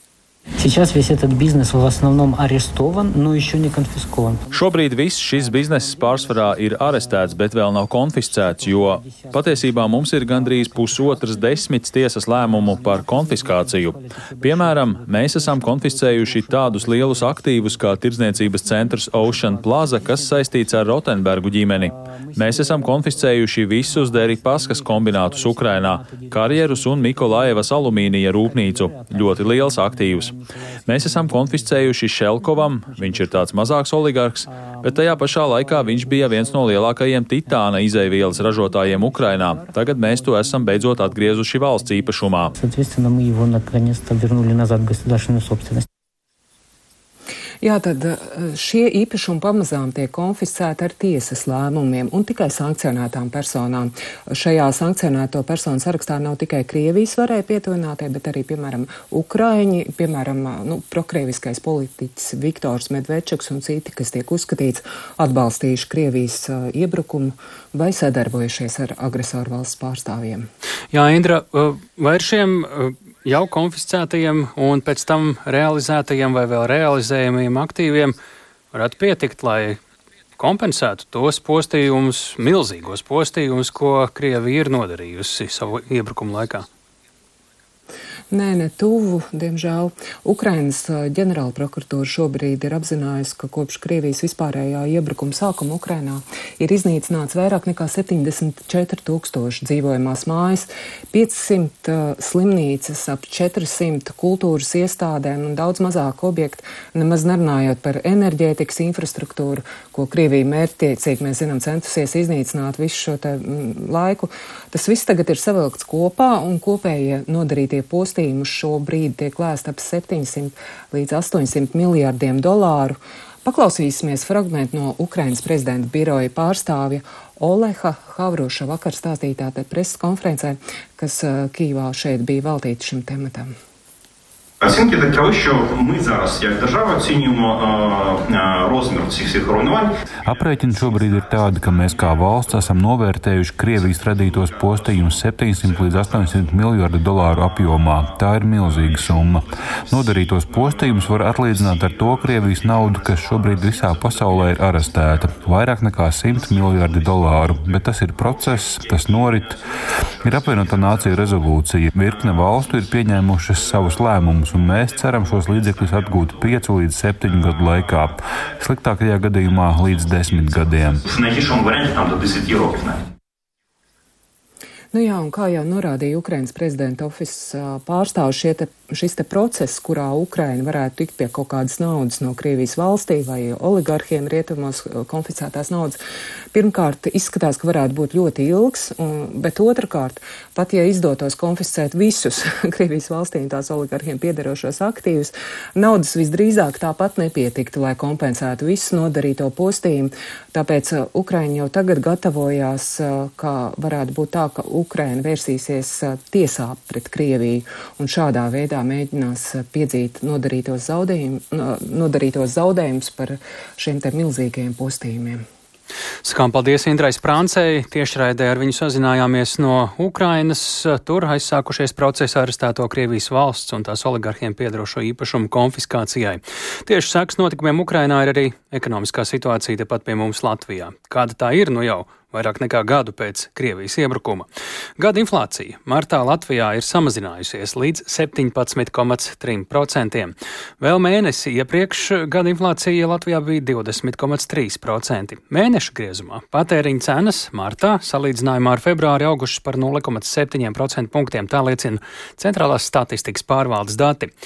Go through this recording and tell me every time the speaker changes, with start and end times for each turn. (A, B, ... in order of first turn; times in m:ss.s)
0:00.6-0:04.6 A
0:04.5-0:30.3 B
0:05.3-0:07.5 A
0:08.2-0:11.7 A
0:12.3-0:17.8 A
0:18.4-0:33.6 A
0:30.9-0:42.5 B
0:34.5-0:45.8 A
0:47.6-1:10.5 C
1:10.9-1:18.2 D
1:18.7-1:19.8 D
1:20.4-1:26.7 D
1:28.3-2:13.5 C
2:14.6-2:19.9 E
2:20.2-2:39.6 F
2:21.5-2:22.0 E
2:25.1-2:26.2 E
2:40.2-2:51.1 F
2:51.0-2:53.0 E
2:54.9-3:06.0 C
3:06.5-3:35.5 C
3:36.2-4:14.3 D